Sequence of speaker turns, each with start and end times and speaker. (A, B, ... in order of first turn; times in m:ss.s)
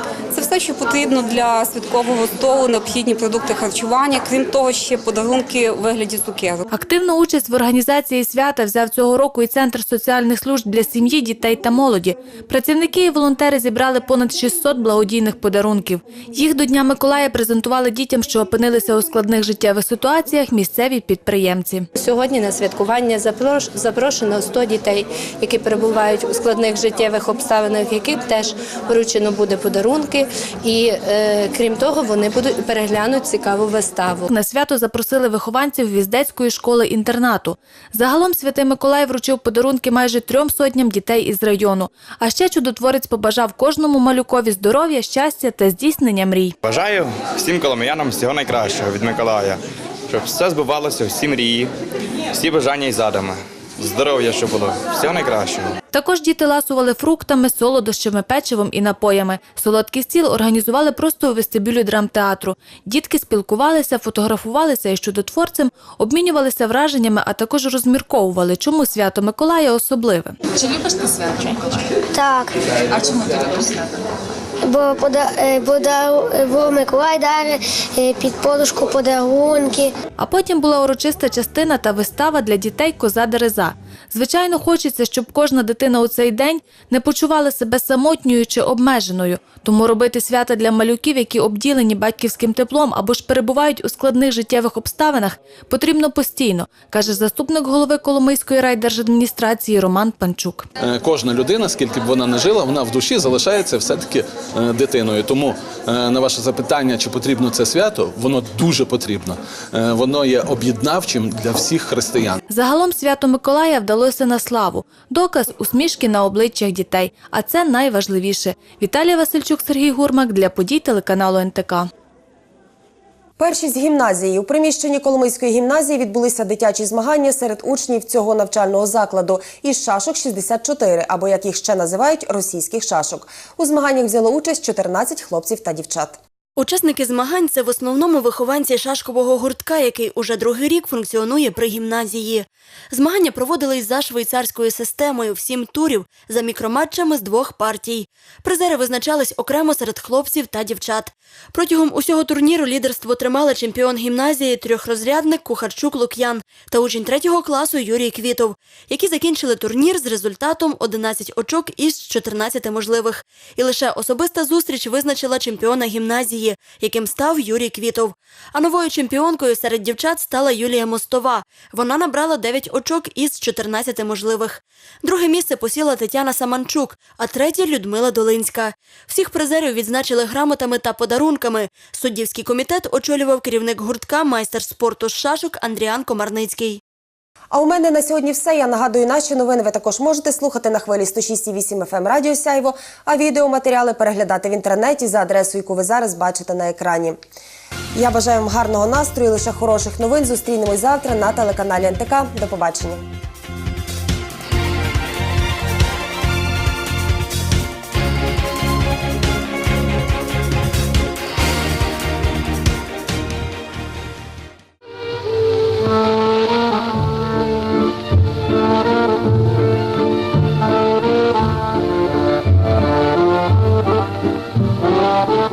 0:00.3-0:06.6 A
0:06.7-0:21.9 B
0:22.0-0:34.3 C
0:34.3-0:46.5 B
0:46.6-0:51.7 D
0:52.3-0:55.7 D
0:55.9-1:10.4 B
1:10.6-1:11.8 E
1:12.1-1:12.6 F
1:13.0-1:13.8 E
1:14.6-1:19.9 F
1:20.2-1:40.7 B
1:40.8-1:52.4 G
1:52.5-2:01.9 B
2:03.4-2:16.2 H
2:16.6-3:06.8 I
3:07.5-3:17.2 H
3:17.9-3:23.0 H